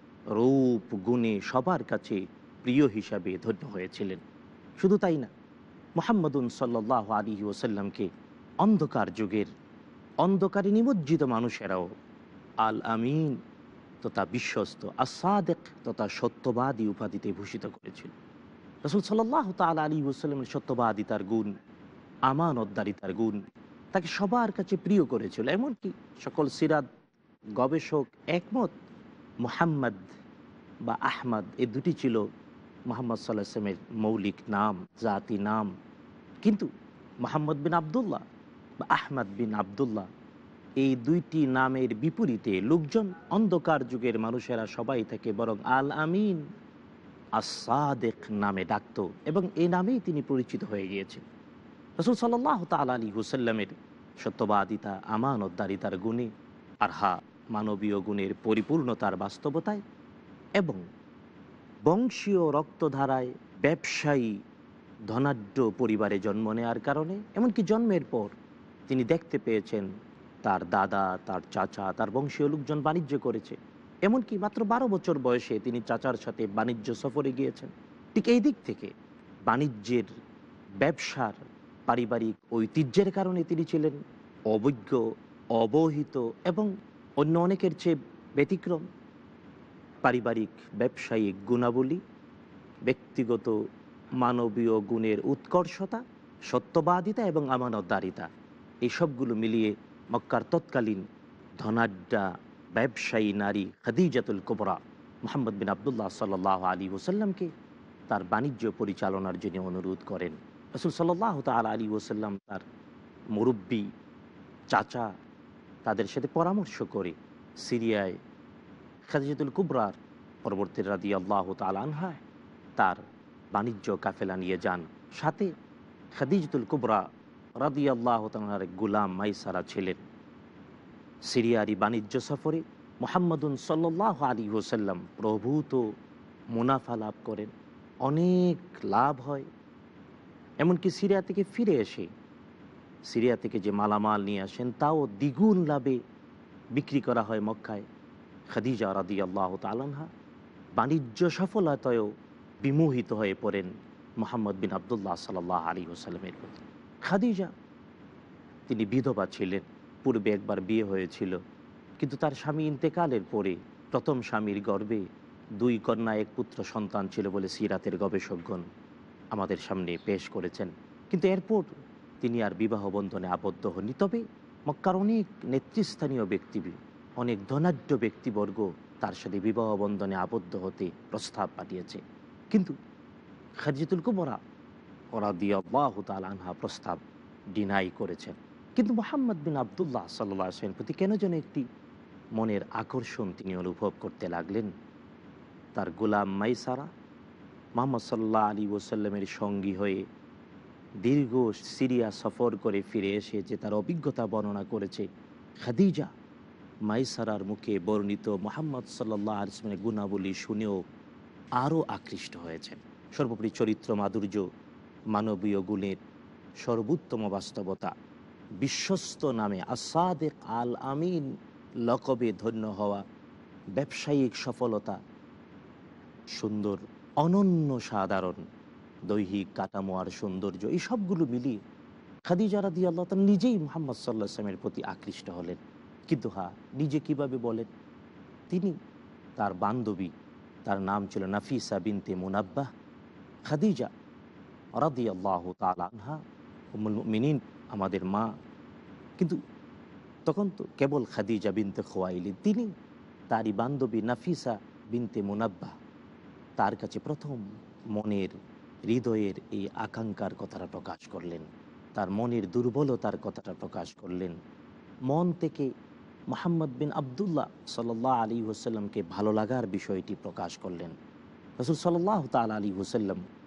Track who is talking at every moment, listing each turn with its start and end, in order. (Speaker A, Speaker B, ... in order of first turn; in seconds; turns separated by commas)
Speaker A: 0.4-4.2, Speaker A: 4.8-5.3, Speaker A: 6.0-8.1, Speaker A: 8.6-9.5, Speaker A: 10.2-11.9, Speaker A: 12.6-13.4, Speaker A: 14.0-18.1, Speaker A: 18.9-21.5, Speaker A: 22.3-23.4, Speaker A: 23.9-26.9, Speaker A: 27.6-28.7, Speaker A: 29.4-30.0, Speaker A: 30.9-32.2, Speaker A: 32.9-35.7, Speaker A: 37.2-38.2, Speaker A: 38.8-40.1, Speaker A: 40.8-46.4, Speaker A: 47.4-51.2, Speaker A: 52.0-56.3, Speaker A: 56.8-59.8, Speaker A: 61.9-64.3, Speaker A: 65.1-68.3, Speaker A: 68.9-69.9, Speaker A: 70.5-73.6, Speaker A: 74.1-78.9, Speaker A: 79.5-80.1, Speaker A: 80.8-84.0, Speaker A: 84.5-85.0, Speaker A: 85.6-88.9, Speaker A: 90.0-92.0, Speaker A: 92.9-93.5, Speaker A: 94.2-98.3, Speaker A: 98.9-101.0, Speaker A: 101.6-107.5, Speaker A: 108.1-112.7, Speaker A: 113.3-113.9, Speaker A: 114.7-115.1, Speaker A: 115.9-118.2, Speaker A: 119.1-122.2, Speaker A: 123.5-125.5, Speaker A: 126.2-127.0, Speaker A: 127.6-130.0, Speaker A: 131.3-135.8, Speaker A: 136.6-137.5, Speaker A: 138.1-139.5, Speaker A: 140.6-142.1, Speaker A: 143.1-146.0, Speaker A: 146.8-147.8, Speaker A: 148.5-150.1, Speaker A: 150.8-152.1, Speaker A: 152.6-153.7, Speaker A: 154.2-157.5, Speaker A: 158.7-161.3, Speaker A: 162.0-165.0, Speaker A: 165.6-168.6, Speaker A: 169.3-171.7, Speaker A: 172.2-182.0, Speaker A: 183.6-184.4, Speaker A: 185.1-187.0, Speaker A: 187.6-191.6, Speaker A: 192.4-194.7, Speaker A: 195.8-196.9, Speaker A: 197.8-200.0, Speaker A: 201.0-205.1, Speaker A: 205.7-206.1, Speaker A: 206.9-210.8, Speaker A: 211.6-214.4, Speaker A: 215.1-216.0, Speaker A: 216.6-217.9, Speaker A: 218.6-221.2, Speaker A: 221.9-223.0, Speaker A: 223.8-225.0, Speaker A: 226.4-228.4, Speaker A: 229.1-231.6, Speaker A: 232.3-235.6, Speaker A: 236.1-237.7, Speaker A: 239.4-240.1, Speaker A: 240.7-242.7, Speaker A: 243.5-243.9, Speaker A: 244.8-246.2, Speaker A: 246.8-248.3, Speaker A: 250.3-252.7, Speaker A: 253.3-255.7, Speaker A: 256.6-257.4, Speaker A: 258.0-258.3, Speaker A: 258.9-261.5, Speaker A: 262.0-264.4, Speaker A: 265.1-265.7, Speaker A: 266.3-270.9, Speaker A: 271.6-273.2